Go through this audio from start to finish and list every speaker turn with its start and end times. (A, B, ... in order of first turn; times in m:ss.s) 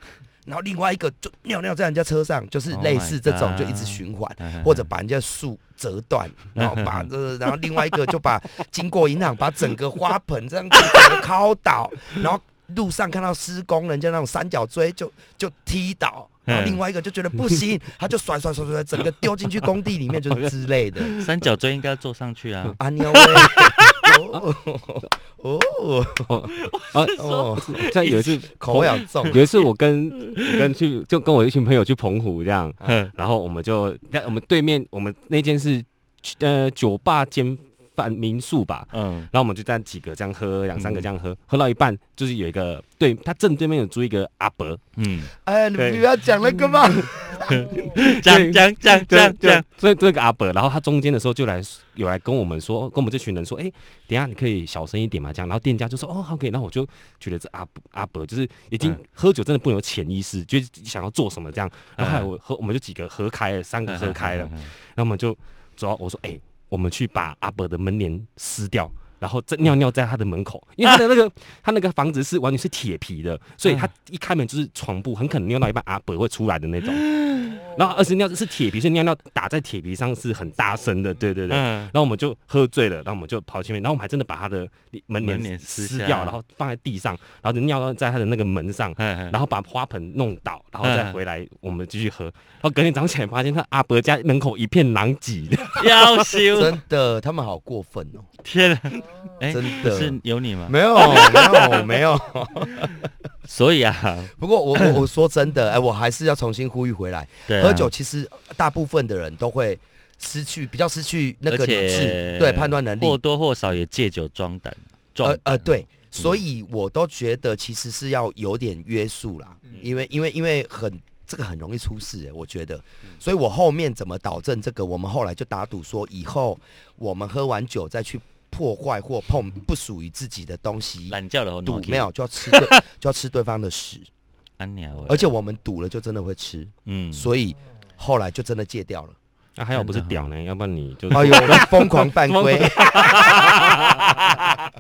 0:00.5-0:21.1 A
0:02.7-0:04.8 B
0:06.6-0:07.1 B
0:16.5-0:16.8 B
0:21.2-0:23.9 B
0:22.8-0:26.3 A
0:26.3-0:44.8 C
0:26.6-0:28.2 B
0:27.1-0:29.4 A
0:32.8-0:33.1 B
0:38.9-0:39.3 B
0:40.8-0:41.1 B
0:45.0-0:45.3 B
0:45.4-0:47.4 A
0:45.8-0:46.0 C
0:46.9-1:17.1 C
0:47.4-0:49.6 B
1:02.0-1:02.3 B
1:03.9-1:04.7 B
1:17.1-1:17.6 B
1:17.7-1:36.1 C
1:21.5-1:21.9 B
1:25.2-1:26.4 B
1:29.0-1:29.4 B
1:30.8-1:31.2 B
1:35.8-1:36.8 B
1:36.5-1:38.3 A
1:38.4-1:41.8 B
1:39.5-1:43.1 A
1:43.5-1:44.3 B
1:44.4-1:53.2 A
1:47.5-1:47.9 B
1:51.5-1:55.7 B
1:55.2-2:14.1 A
2:11.1-2:12.8 B
2:14.6-2:15.3 B
2:15.1-2:19.2 A
2:16.9-2:17.3 B
2:19.6-2:24.4 C
2:19.8-2:20.3 B
2:21.1-2:23.9 A